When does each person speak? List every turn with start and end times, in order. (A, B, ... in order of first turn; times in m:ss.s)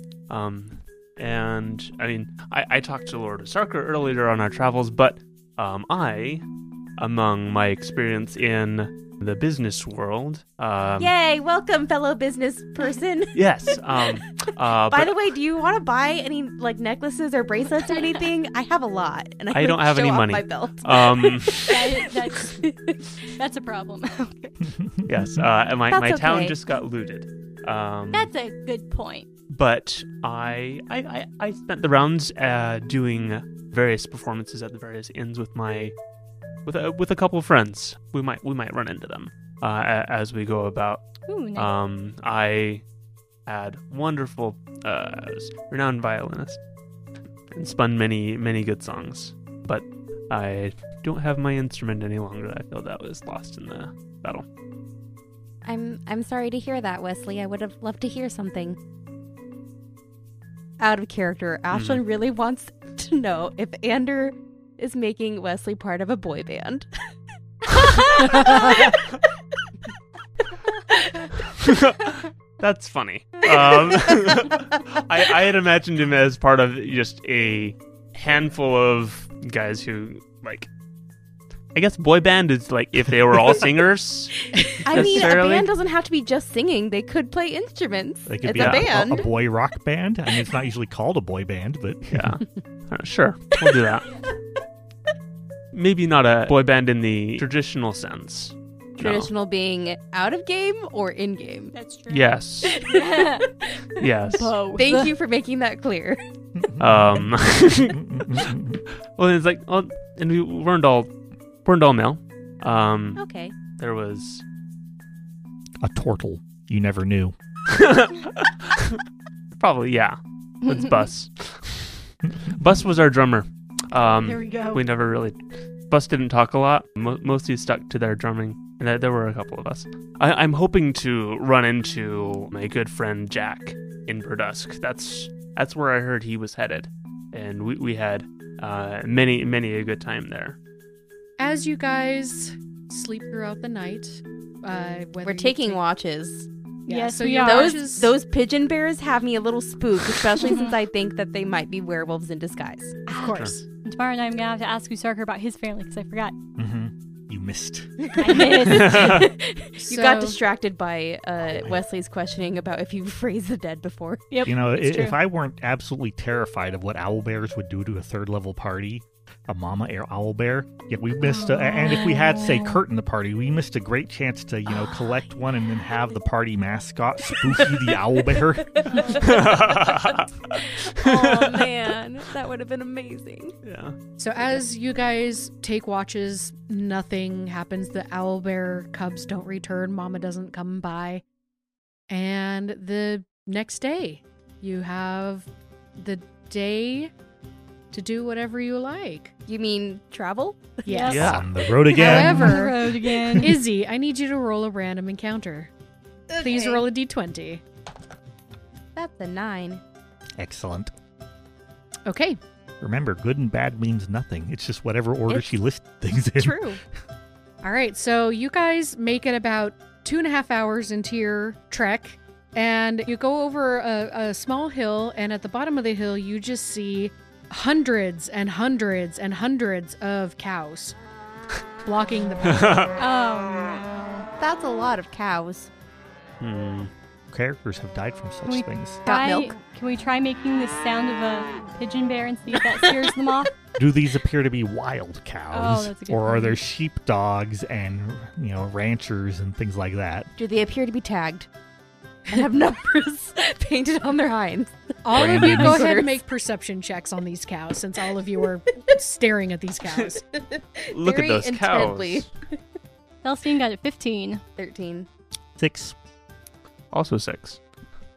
0:00.3-0:06.4 A
0:07.0-0:11.1 A
0:11.0-0:13.4 B
0:13.3-0:15.1 A
0:14.9-0:21.8 B
0:19.5-0:21.8 A
0:21.7-0:24.6 C
0:22.4-0:22.7 B
0:24.6-0:25.4 D
0:25.0-0:28.3 A
0:25.9-0:26.6 B
0:28.1-0:29.3 C
0:29.5-0:35.9 A
0:36.6-0:42.8 A
0:41.3-0:41.7 C
0:43.4-0:46.6 A
0:47.5-0:54.4 A
0:55.6-0:58.8 B
1:00.8-1:06.9 B
1:01.7-1:02.0 A
1:07.6-1:09.0 B
1:10.9-1:11.3 B
1:11.5-1:20.7 A
1:13.8-1:14.8 B
1:21.7-1:25.7 A
1:24.8-1:29.3 B
1:28.3-1:32.4 D
1:28.4-1:29.1 A
1:32.1-1:34.1 A
1:35.7-1:39.3 A
1:39.0-1:41.7 B
1:41.7-1:43.5 C
1:42.1-1:42.8 A
1:42.8-1:43.0 B
1:44.0-1:44.5 A
1:44.3-1:45.1 C
1:44.7-1:46.2 B
1:46.6-1:48.8 D
1:46.8-1:48.4 A
1:49.2-1:51.1 A
1:51.6-1:53.2 A
1:53.2-1:53.6 B
1:53.8-1:54.4 A
1:55.8-1:57.4 D
1:57.7-1:59.0 A
1:59.5-2:05.4 A
2:03.9-2:04.8 C
2:05.9-2:20.6 A
2:21.4-2:25.8 E
2:25.2-2:26.5 B
2:26.9-2:27.8 C
2:26.9-2:28.1 E
2:27.4-2:33.0 B
2:30.4-2:30.8 C
2:33.1-2:33.6 E
2:33.8-2:36.3 C
2:36.6-2:38.3 D
2:38.0-2:44.4 B
2:38.2-2:39.4 C
2:38.6-2:39.3 A
2:39.8-2:40.4 E
2:44.3-2:45.2 C
2:44.4-2:59.1 D
2:51.3-2:52.8 C
2:58.7-3:03.5 B
2:58.9-2:59.4 C
2:59.2-3:01.8 A
3:03.6-3:04.0 A
3:04.2-3:11.2 E
3:12.1-3:17.1 E
3:17.9-3:19.3 E
3:19.4-3:20.8 B
3:20.8-3:21.4 E
3:20.8-3:23.6 C
3:21.1-3:21.4 A
3:21.1-3:23.4 D
3:21.9-3:22.8 E
3:23.3-3:25.7 E
3:26.3-3:26.9 B
3:26.4-3:27.6 E
3:29.0-3:29.8 B
3:30.4-3:30.9 D
3:32.0-3:32.4 E
3:32.8-3:36.6 D
3:36.3-3:36.8 B
3:37.6-3:51.0 E
3:51.8-3:52.9 E
3:52.4-3:52.9 A
3:53.0-3:54.3 C
3:54.4-3:55.7 B
3:56.4-3:56.9 A
3:57.3-3:59.0 D
3:58.4-4:03.5 C
3:59.0-3:59.5 B
4:03.8-4:10.3 D
4:05.5-4:06.6 C
4:10.4-4:11.5 B
4:12.3-4:16.2 B
4:15.0-4:20.2 E
4:15.1-4:15.9 D
4:20.3-4:22.3 B
4:20.9-4:22.3 A
4:23.2-4:24.4 C
4:24.6-4:25.1 B
4:25.6-4:26.0 D
4:26.9-4:27.6 A